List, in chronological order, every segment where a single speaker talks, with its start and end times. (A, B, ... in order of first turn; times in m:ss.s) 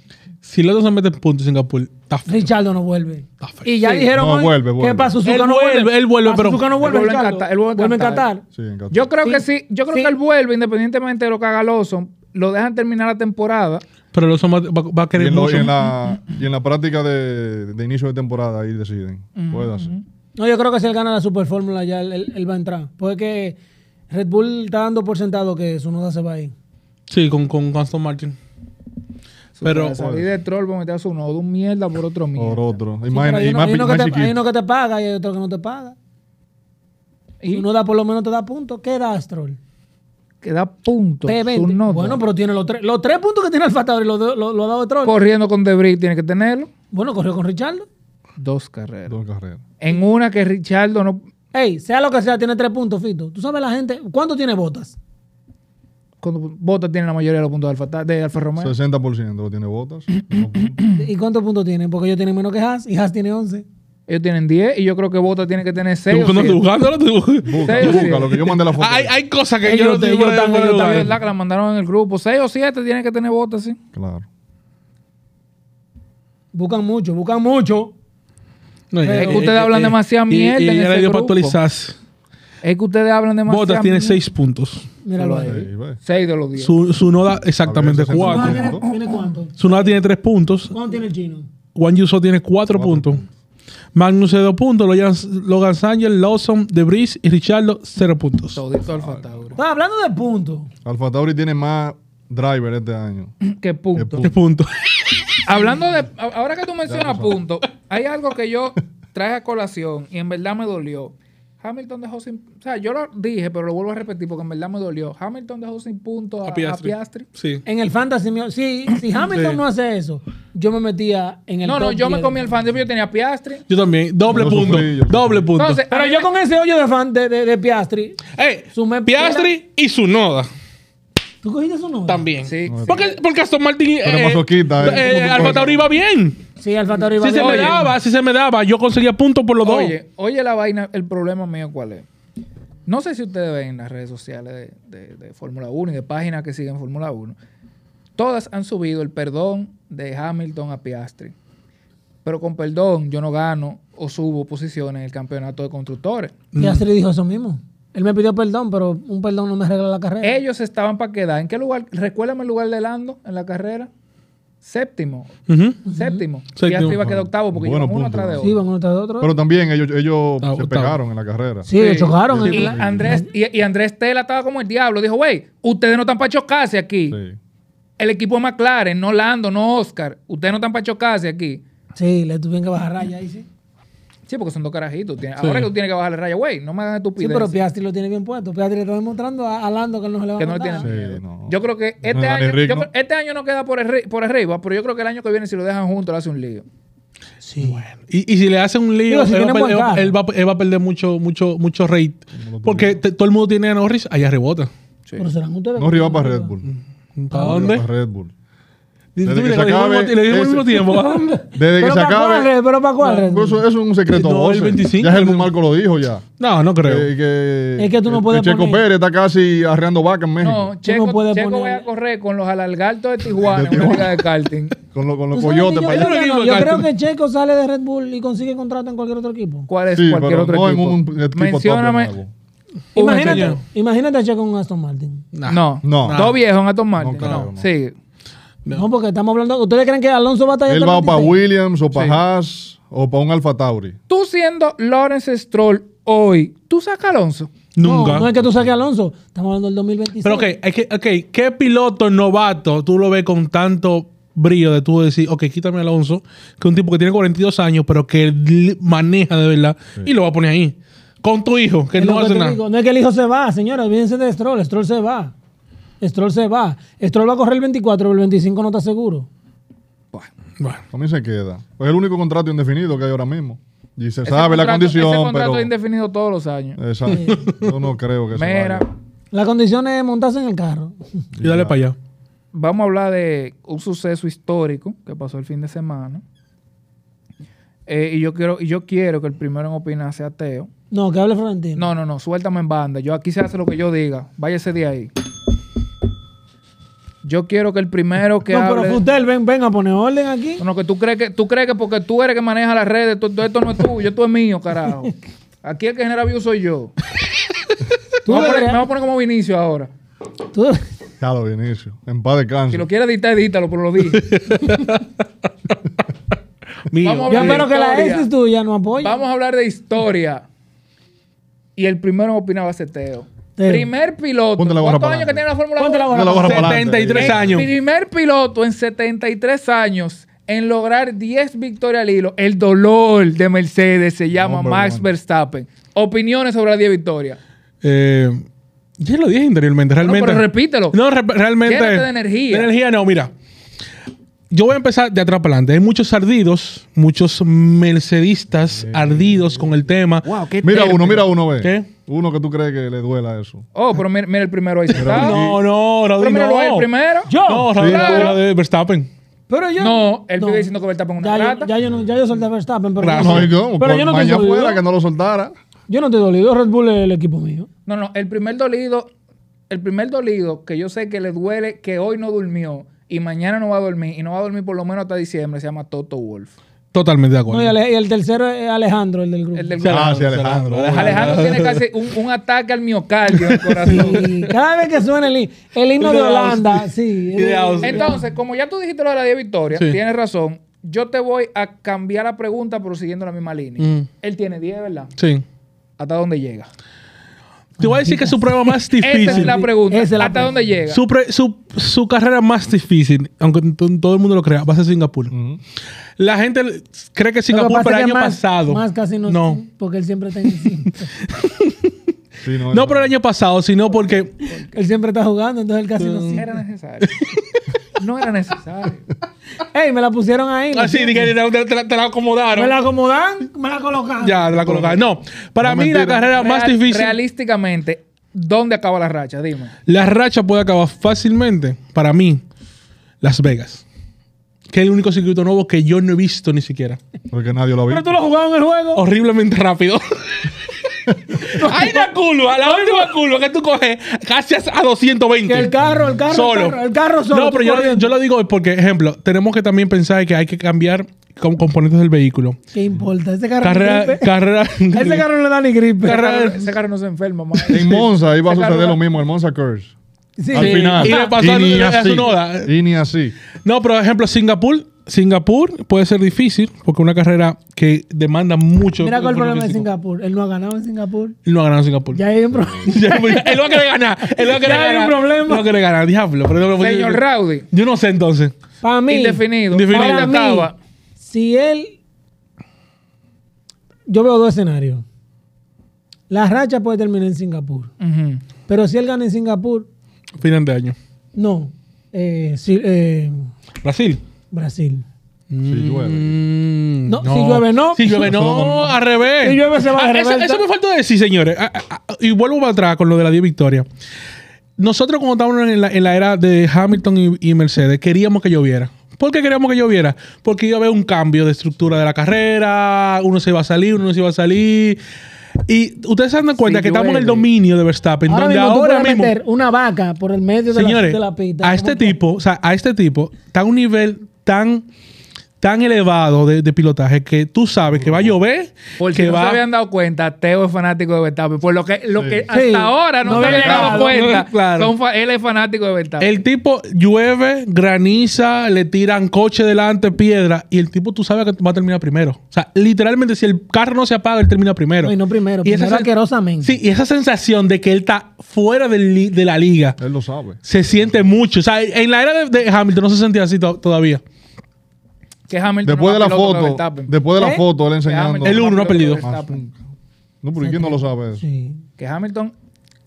0:00.4-0:02.5 A
0:02.3-0:08.4 B
0:03.4-0:03.7 A
0:04.1-0:05.2 C
0:05.2-0:06.7 A
0:06.8-0:08.3 D
0:08.6-0:09.1 C
0:08.9-0:13.8 D
0:09.2-0:10.1 B
0:14.1-0:15.8 A
0:15.1-0:19.9 C
0:19.4-0:20.0 D
0:20.4-0:23.6 B
0:24.1-0:26.5 B
0:27.1-0:28.4 A
0:29.6-0:32.8 D
0:29.6-0:30.0 A
0:29.9-0:30.3 C
0:32.4-0:34.4 C
0:33.1-0:36.0 B
0:37.4-0:37.7 D
0:37.5-0:39.6 B
0:40.4-0:42.2 D
0:41.3-0:45.2 B
0:45.0-0:46.7 D
0:46.9-0:47.9 B
0:48.4-0:49.2 D
0:49.1-0:49.6 C
0:49.8-0:51.2 D
0:51.5-0:55.0 B
0:56.2-0:58.7 D
0:58.6-1:00.8 C
1:01.0-1:03.6 B
1:04.1-1:06.6 D
1:06.1-1:11.1 A
1:07.4-1:09.1 C
1:07.6-1:08.4 D
1:09.6-1:11.2 B
1:10.7-1:13.8 D
1:13.9-1:14.2 C
1:16.5-1:17.9 B
1:18.9-1:22.0 A
1:19.0-1:19.5 B
1:19.2-1:21.6 D
1:22.6-1:24.2 D
1:23.5-1:24.9 A
1:25.0-1:25.6 B
1:25.2-1:26.7 D
1:25.4-1:26.0 C
1:26.6-1:28.7 A
1:27.6-1:28.9 C
1:28.2-1:29.9 B
1:29.6-1:30.7 A
1:30.7-1:31.5 B
1:31.8-1:33.2 A
1:32.7-1:33.3 C
1:33.9-1:38.6 A
1:38.6-1:39.6 D
1:39.6-1:40.7 B
1:40.8-1:43.3 C
1:43.4-1:44.3 D
1:44.0-1:44.4 C
1:44.2-1:45.4 A
1:45.4-1:57.3 D
1:46.9-1:47.4 C
1:56.4-1:57.6 A
1:57.7-2:02.4 B
1:59.3-1:59.6 A
2:01.6-2:03.6 D
2:03.7-2:05.8 A
2:04.3-2:05.5 C
2:05.6-2:06.3 D
2:05.9-2:09.5 B
2:08.3-2:10.5 A
2:11.4-2:12.3 B
2:12.1-2:16.4 A
2:12.4-2:13.2 D
2:12.7-2:13.0 C
2:14.0-2:15.8 C
2:15.0-2:15.6 B
2:16.6-2:17.9 B
2:17.2-2:19.9 A
2:17.3-2:17.9 D
2:19.6-2:22.1 D
2:22.9-2:27.4 D
2:28.2-2:31.3 D
2:32.2-2:36.3 D
2:36.5-2:36.8 A
2:36.6-2:40.4 B
2:40.2-2:43.9 D
2:44.6-2:48.5 D
2:45.5-2:45.8 A
2:45.9-2:46.2 B
2:46.6-2:47.0 A
2:46.8-2:48.5 C
2:48.4-2:49.3 B
2:49.2-2:53.2 C
2:50.4-2:51.0 A
2:51.7-2:53.3 B
2:51.8-2:57.2 D
2:57.1-2:57.4 C
2:58.0-3:01.6 D
3:02.0-3:03.5 B
3:04.3-3:07.6 D
3:05.4-3:05.7 A
3:07.2-3:10.9 B
3:10.4-3:16.6 D
3:10.8-3:12.9 C
3:17.4-3:17.8 B
3:17.6-3:24.7 A
3:19.1-3:20.2 B
3:22.4-3:23.0 C
3:25.2-3:26.5 B
3:25.8-3:26.7 C
3:26.7-3:27.9 A
3:27.3-3:27.6 B
3:27.3-3:28.3 C
3:29.2-3:31.4 A
3:29.2-3:30.8 C
3:31.5-3:32.5 C
3:31.8-3:33.6 B
3:33.0-3:36.2 C
3:34.1-3:35.5 A
3:36.4-3:37.1 A
3:36.8-3:40.7 C
3:37.8-3:38.8 B
3:40.4-3:44.8 D
3:40.8-3:41.9 B
3:43.4-3:44.2 C
3:44.9-3:46.2 C
3:45.3-3:49.7 B
3:45.9-3:46.9 A
3:49.7-3:52.1 D
3:49.9-3:52.3 C
3:53.0-3:53.6 D
3:53.0-3:55.2 B
3:53.2-3:53.6 A
3:55.3-3:56.4 A
3:55.5-3:57.9 D
3:55.8-3:56.4 C
3:57.0-3:57.7 C
3:57.2-3:57.5 A
3:58.7-4:01.4 B
4:00.7-4:04.0 C
4:04.1-4:07.5 D
4:07.8-4:08.3 A
4:07.8-4:10.5 B
4:08.0-4:08.6 C
4:10.2-4:22.6 A
4:22.0-4:25.3 B
4:26.0-4:29.3 B
4:30.9-4:35.7 C
4:34.2-4:36.8 D
4:36.8-4:38.8 C
4:37.1-4:37.4 B
4:37.2-4:37.7 A
4:38.3-4:38.9 D
4:39.3-4:41.0 B
4:41.3-4:41.8 C
4:41.4-4:42.0 A
4:42.5-4:46.2 D
4:47.9-4:50.7 D
4:50.9-4:51.9 B
4:51.8-4:55.1 D
4:57.2-4:59.0 D
4:58.5-5:00.6 B
5:00.6-5:06.9 D
5:08.2-5:08.8 B
5:08.3-5:09.9 D
5:10.5-5:10.8 B
5:11.2-5:12.9 C
5:12.7-5:14.3 D
5:14.1-5:15.0 A
5:16.9-5:17.7 A
5:17.0-5:18.3 D
5:17.3-5:19.2 B
5:19.0-5:20.4 D
5:21.8-5:37.4 D
5:23.6-5:23.9 B
5:24.6-5:25.4 C
5:25.8-5:26.8 B
5:26.1-5:27.7 C
5:26.4-5:27.7 A
5:34.3-5:35.1 C
5:37.8-5:38.4 A
5:39.0-5:43.3 A
5:40.0-5:41.0 D
5:41.6-5:42.7 D
5:44.5-5:50.3 A
5:48.8-5:49.8 C
5:50.2-5:51.3 D
5:50.6-5:53.6 C
5:51.6-5:51.9 A
5:53.7-5:55.6 D
5:55.0-5:55.6 C
5:55.0-5:56.9 A
5:56.2-5:58.4 D
5:57.3-5:57.8 B
5:57.4-5:59.1 A
5:57.7-5:58.3 C
5:59.5-6:04.8 B
5:59.8-6:01.7 D
6:03.0-6:03.5 A
6:03.2-6:05.5 C
6:05.9-6:07.7 B
6:07.9-6:09.1 D
6:09.7-6:16.5 D
6:16.9-6:17.8 A
6:17.5-6:19.8 B
6:19.6-6:20.1 D
6:19.8-6:21.8 A
6:19.9-6:21.5 C
6:20.9-6:24.3 D
6:23.3-6:24.5 A
6:23.9-6:28.2 B
6:26.0-6:28.2 A
6:27.8-6:35.1 D
6:33.8-6:34.1 A
6:35.2-6:35.4 A
6:36.0-6:36.7 D
6:37.8-6:40.6 B
6:37.8-6:39.6 A
6:39.0-6:41.0 D
6:40.9-6:45.3 A
6:45.3-6:45.6 C
6:46.2-6:49.6 A
6:47.5-6:51.1 B
6:51.2-6:51.9 A
6:52.4-6:53.1 C
6:52.7-6:54.3 A
6:54.5-6:56.5 B
6:56.0-6:56.5 A
6:56.4-6:57.1 D
6:57.0-6:57.4 A
6:58.0-6:59.0 D
6:59.7-7:01.3 B
7:00.7-7:02.8 A
7:02.5-7:04.9 B
7:04.2-7:07.2 A
7:05.6-7:06.3 C
7:06.3-7:09.7 D
7:09.9-7:12.4 A
7:13.2-7:13.8 A
7:14.7-7:17.0 A
7:17.3-7:18.2 C
7:17.9-7:19.0 B
7:19.0-7:20.5 A
7:21.1-7:25.7 A
7:21.5-7:23.1 B
7:25.5-7:28.1 B
7:25.8-7:26.2 C
7:26.3-7:32.6 A
7:32.7-7:34.3 B
7:33.6-7:35.3 A
7:34.9-7:36.4 B
7:36.0-7:39.0 D
7:36.0-7:36.7 A
7:37.7-7:39.9 C
7:40.4-7:41.4 B
7:40.5-7:43.4 C
7:40.5-7:42.7 A
7:43.6-7:49.9 A
7:49.0-7:51.4 B
7:51.4-7:52.2 A
7:52.1-7:53.8 B
7:52.8-7:58.5 A
7:54.4-7:55.7 B
7:56.8-7:57.7 D
7:58.8-8:02.0 B
7:59.1-8:00.8 D
7:59.7-8:00.3 A
8:04.1-8:05.0 B
8:06.3-8:07.9 B
8:08.0-8:08.4 D
8:08.7-8:09.9 B
8:10.4-8:11.0 A
8:11.4-8:13.5 B
8:13.8-8:14.2 A
8:14.5-8:15.0 B
8:15.5-8:23.9 A
8:15.7-8:16.4 C
8:17.1-8:18.3 B
8:18.0-8:19.0 C
8:19.4-8:20.6 B
8:24.8-8:35.0 A
8:35.7-8:39.3 A
8:36.6-8:37.5 D
8:38.3-8:42.2 B
8:40.7-8:44.9 A
8:45.6-8:49.6 A
8:48.0-8:48.4 C
8:49.0-8:56.3 D
8:52.2-8:52.4 C
8:52.5-8:54.3 B
8:53.3-8:54.9 A
8:56.2-9:06.1 A
9:05.0-9:06.8 B
9:06.6-9:10.0 A
9:10.0-9:11.2 C
9:10.6-9:14.2 A
9:15.5-9:17.1 D
9:15.8-9:19.8 C
9:17.4-9:17.6 B
9:18.0-9:19.6 D
9:18.4-9:19.2 A
9:20.4-9:21.4 C
9:20.6-9:21.8 B
9:22.0-9:22.5 D